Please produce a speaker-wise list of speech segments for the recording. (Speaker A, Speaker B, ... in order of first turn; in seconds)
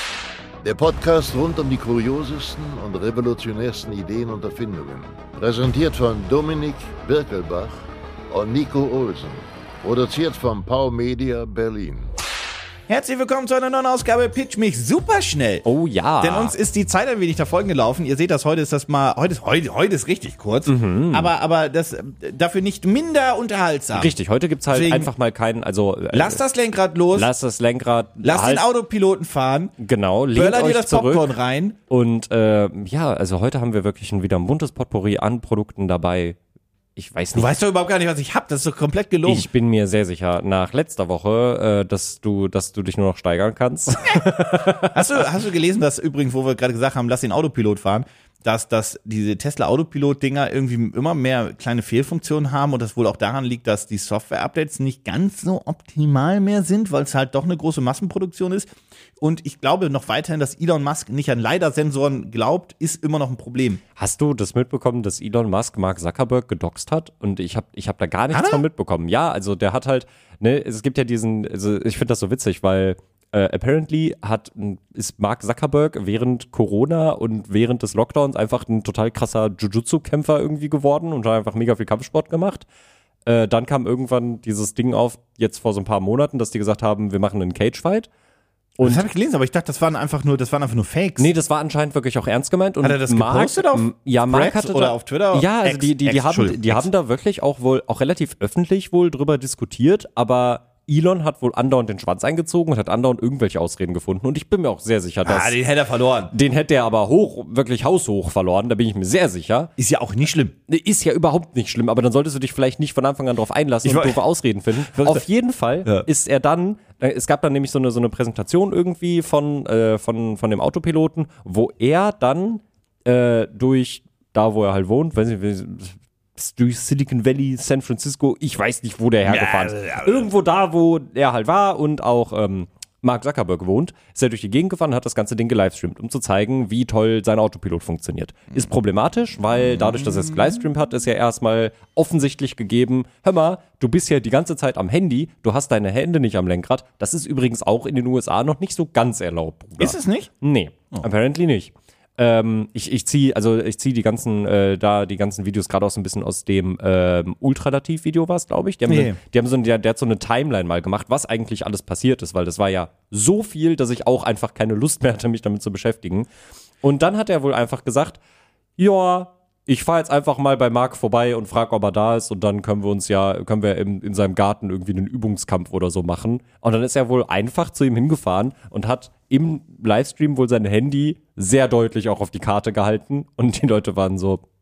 Speaker A: 0.6-12.1
Speaker B: 12.9-15.7, 16.2-24.1, 24.7-25.1, 26.1-27.3, 28.2-29.7, 30.3-31.8, 37.3-39.5, 44.8-63.8, 68.3-68.6, 88.8-91.3, 92.8-96.9, 105.2-106.3, 109.8-110.5, 113.8-114.2, 114.9-115.2, 129.2-130.3, 139.7-140.1, 149.8-150.3, 158.8-159.2
Speaker C: 15.7-16.5, 20.6-21.3, 23.9-26.4, 27.1-28.6, 29.8-31.3, 31.9-36.4, 37.0-37.5, 39.2-45.1, 64.0-82.6, 83.2-88.1, 88.8-89.0, 91.2-105.5, 106.3-109.7, 110.7-166.3, 166.8-168.2, 168.8-184.4